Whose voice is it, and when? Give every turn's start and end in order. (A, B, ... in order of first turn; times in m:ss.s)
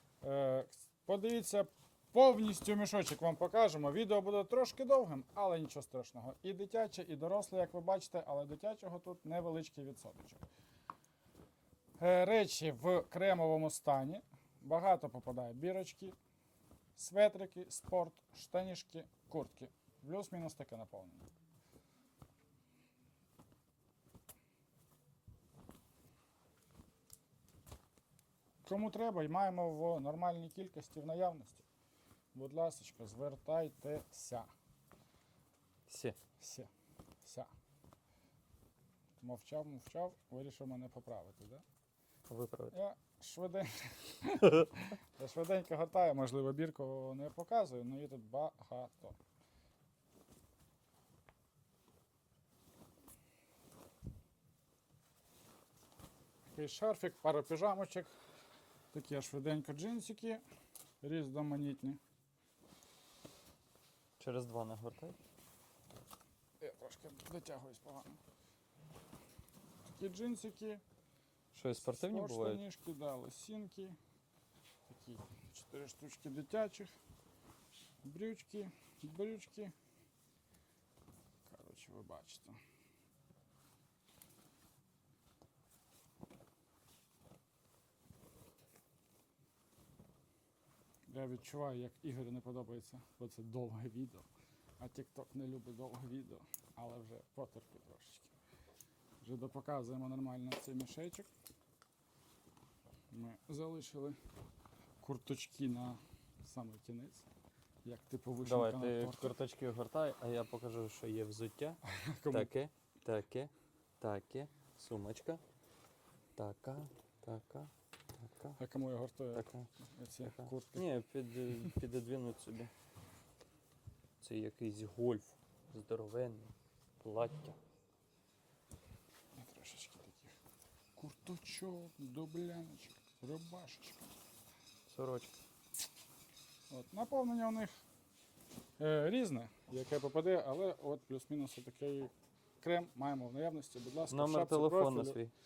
0:00.2-0:10.4 A
0:12.0-0:16.2 A
0:17.0-0:21.3 A
0:28.6-0:31.6 A
0:32.3-0:34.5 A
0:35.9-0:36.2 B
0:36.4-0:36.7 A
0:37.2-0:37.5 A
0:39.2-0:41.6 A
0:42.3-0:42.8 B
0:42.7-0:49.2 A
0:56.5-0:58.1 A
0:58.9-1:00.4 A
1:01.0-1:02.0 A
1:04.2-1:05.2 B
1:06.6-1:08.2 A
1:09.8-1:10.8 A
1:11.5-1:12.6 B
1:11.8-1:14.0 A
1:14.9-1:16.9 A
1:18.0-1:19.7 A
1:21.4-1:22.6 A
1:31.1-1:34.3 A
1:34.8-1:38.3 A
1:39.2-1:41.3 A
1:43.1-1:44.2 A
1:45.0-1:47.2 A
1:47.8-1:49.3 A
1:48.4-1:51.8 B
1:51.8-1:52.5 A
1:52.3-1:55.4 B
1:56.4-1:58.6 B
1:58.6-2:00.8 A
1:59.3-1:59.7 B
2:00.2-2:02.7 B
2:04.2-2:07.6 B
2:09.4-2:10.4 A
2:11.0-2:14.1 A
2:14.9-2:15.3 B
2:16.7-2:17.8 A
2:18.8-2:25.2 A
2:24.1-2:25.3 B